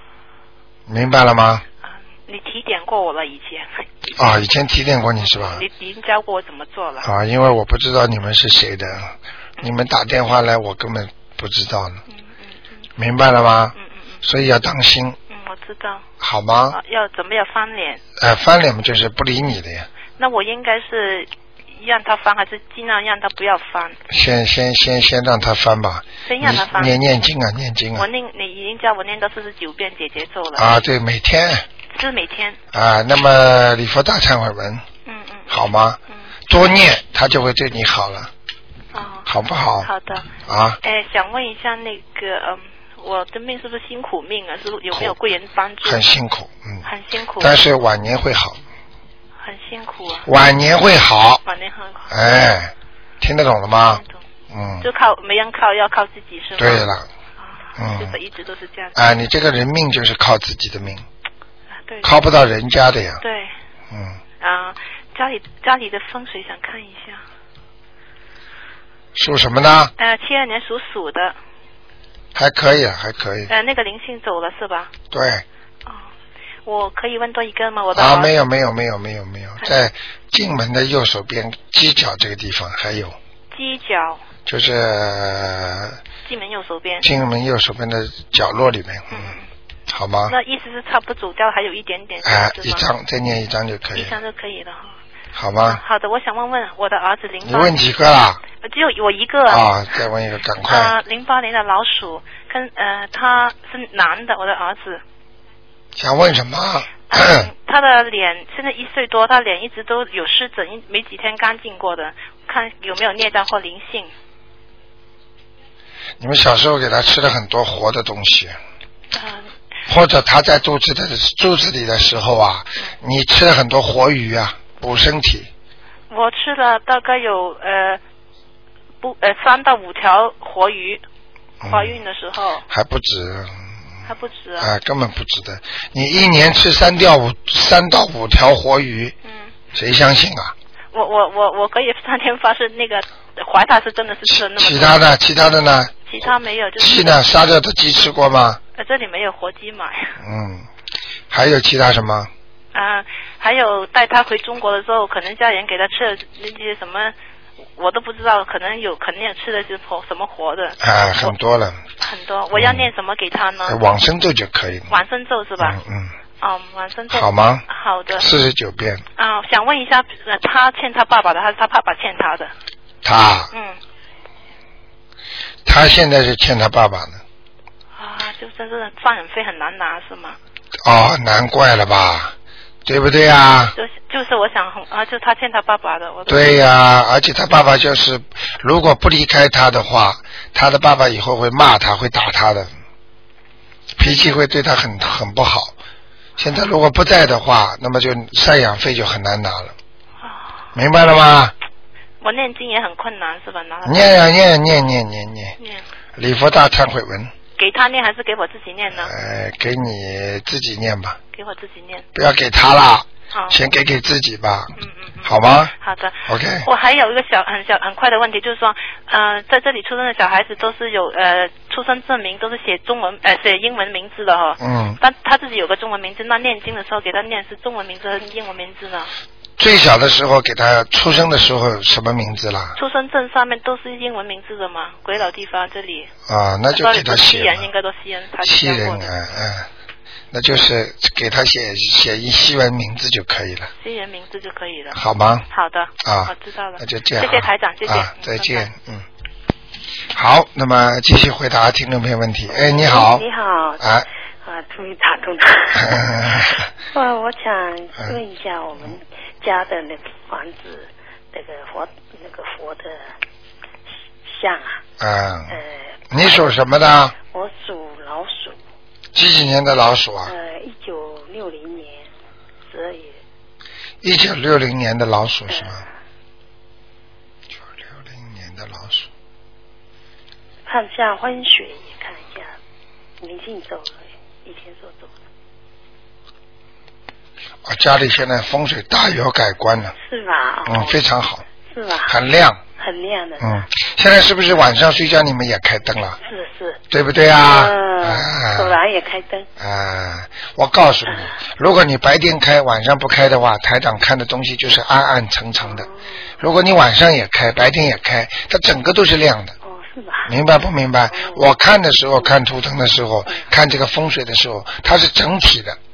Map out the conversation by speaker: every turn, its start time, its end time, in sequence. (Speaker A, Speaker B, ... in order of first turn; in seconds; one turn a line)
Speaker A: 0.9-1.6
Speaker B: 1.8-3.9
Speaker A: 4.2-5.6
Speaker B: 5.2-7.1
Speaker A: 7.0-12.0
Speaker B: 12.1-12.8
Speaker A: 13.0-15.2
Speaker B: 13.8-14.2
Speaker B: 15.3-16.1
Speaker A: 16.2-16.8
Speaker B: 16.7-18.0
Speaker A: 18.2-19.9
Speaker B: 20.2-24.0
Speaker A: 24.1-28.1
Speaker B: 26.2-27.0
Speaker B: 27.9-30.7
Speaker A: 30.6-31.7
Speaker B: 31.9-32.6
Speaker A: 32.7-34.8
Speaker B: 35.0-36.3
Speaker A: 35.5-38.3
Speaker B: 38.9-40.3
Speaker A: 39.3-39.9
Speaker A: 40.4-40.8
Speaker B: 40.8-46.0
Speaker A: 45.8-46.8
Speaker B: 46.8-47.6
Speaker A: 47.4-48.6
Speaker B: 49.4-50.3
Speaker A: 50.2-51.4
Speaker B: 51.5-52.1
Speaker A: 52.1-54.9
Speaker B: 53.9-54.2
Speaker B: 54.8-59.0
Speaker A: 56.6-57.1
Speaker A: 57.8-58.2
Speaker A: 59.0-61.0
Speaker B: 61.9-62.2
Speaker A: 62.0-63.2
Speaker B: 63.2-63.5
Speaker A: 63.9-64.2
Speaker B: 64.4-67.2
Speaker A: 69.1-69.9
Speaker B: 70.0-71.4
Speaker A: 72.3-73.5
Speaker B: 73.5-74.9
Speaker A: 75.1-75.4
Speaker B: 76.6-78.3
Speaker A: 77.9-83.2
Speaker B: 83.5-84.2
Speaker A: 84.5-86.0
Speaker B: 86.2-87.0
Speaker A: 87.0-89.3
Speaker B: 89.1-89.5
Speaker A: 89.9-90.3
Speaker B: 90.3-92.8
Speaker A: 92.2-94.2
Speaker B: 93.9-95.0
Speaker A: 95.3-95.8
Speaker B: 95.7-97.7
Speaker A: 97.4-98.4
Speaker B: 98.6-99.7
Speaker A: 99.5-100.9
Speaker B: 100.7-105.0
Speaker A: 106.0-107.5
Speaker B: 107.1-114.1
Speaker A: 116.2-118.6
Speaker B: 119.1-119.5
Speaker A: 119.9-125.5
Speaker B: 126.1-128.0
Speaker B: 129.0-131.0
Speaker A: 131.6-132.0
Speaker B: 131.6-132.6
Speaker A: 132.7-133.6
Speaker B: 134.1-134.7
Speaker A: 134.6-139.2
Speaker B: 139.2-139.5
Speaker A: 139.7-140.5
Speaker B: 140.9-145.0
Speaker A: 144.3-146.3
Speaker B: 146.1-147.2
Speaker A: 146.8-148.6
Speaker B: 148.8-150.2
Speaker A: 150.2-150.7
Speaker A: 151.3-152.3
Speaker B: 152.7-157.1
Speaker B: 157.8-161.3
Speaker A: 160.8-161.8
Speaker B: 162.0-163.8
Speaker A: 162.5-162.9
Speaker A: 163.6-164.9
Speaker B: 164.9-165.8
Speaker A: 165.6-166.1
Speaker B: 166.4-168.2
Speaker A: 167.1-169.0
Speaker B: 169.2-172.5
Speaker A: 173.0-173.5
Speaker B: 173.5-173.8
Speaker A: 175.6-177.2
Speaker B: 177.9-180.4
Speaker A: 180.8-182.3
Speaker A: 182.8-183.8
Speaker B: 183.7-186.6
Speaker A: 186.3-192.7
Speaker A: 194.0-195.7
Speaker B: 194.0-194.3
Speaker A: 196.4-199.7
Speaker B: 200.2-200.6
Speaker A: 200.7-201.5
Speaker B: 202.2-204.3
Speaker A: 203.8-205.6
Speaker A: 206.2-207.3
Speaker B: 207.6-209.1
Speaker A: 208.9-211.2
Speaker B: 211.3-212.1
Speaker A: 212.1-215.7
Speaker B: 213.3-213.6
Speaker B: 214.8-229.1
Speaker A: 216.2-216.7
Speaker A: 224.6-225.0
Speaker A: 229.6-232.8
Speaker B: 232.8-236.1
Speaker A: 236.3-237.7
Speaker B: 236.7-239.2
Speaker A: 238.4-239.7
Speaker A: 240.3-243.7
Speaker B: 243.8-245.0
Speaker A: 244.9-245.5
Speaker B: 245.5-248.7
Speaker A: 246.0-249.0
Speaker A: 250.1-253.2
Speaker C: 252.5-253.8
Speaker A: 253.8-254.1
Speaker C: 254.4-263.1
Speaker A: 255.7-256.7
Speaker C: 264.2-264.8
Speaker A: 265.0-265.6
Speaker C: 265.5-266.3
Speaker A: 266.1-267.1
Speaker C: 267.3-268.6
Speaker A: 269.1-270.3
Speaker C: 270.2-272.1
Speaker C: 272.6-273.2
Speaker A: 274.0-275.8
Speaker C: 275.5-275.9
Speaker A: 277.6-279.1
Speaker C: 280.6-282.6
Speaker C: 283.2-285.1
Speaker A: 287.6-289.9
Speaker C: 289.9-291.0
Speaker A: 290.6-291.4
Speaker C: 291.7-292.1
Speaker A: 292.1-292.6
Speaker C: 292.8-293.6
Speaker A: 293.4-296.2
Speaker C: 296.2-296.8
Speaker A: 296.9-298.8
Speaker C: 297.4-299.5
Speaker A: 299.6-305.9
Speaker C: 301.1-301.4
Speaker C: 305.6-306.4
Speaker A: 306.4-309.5
Speaker C: 309.6-310.4
Speaker A: 310.3-315.8
Speaker C: 311.1-311.5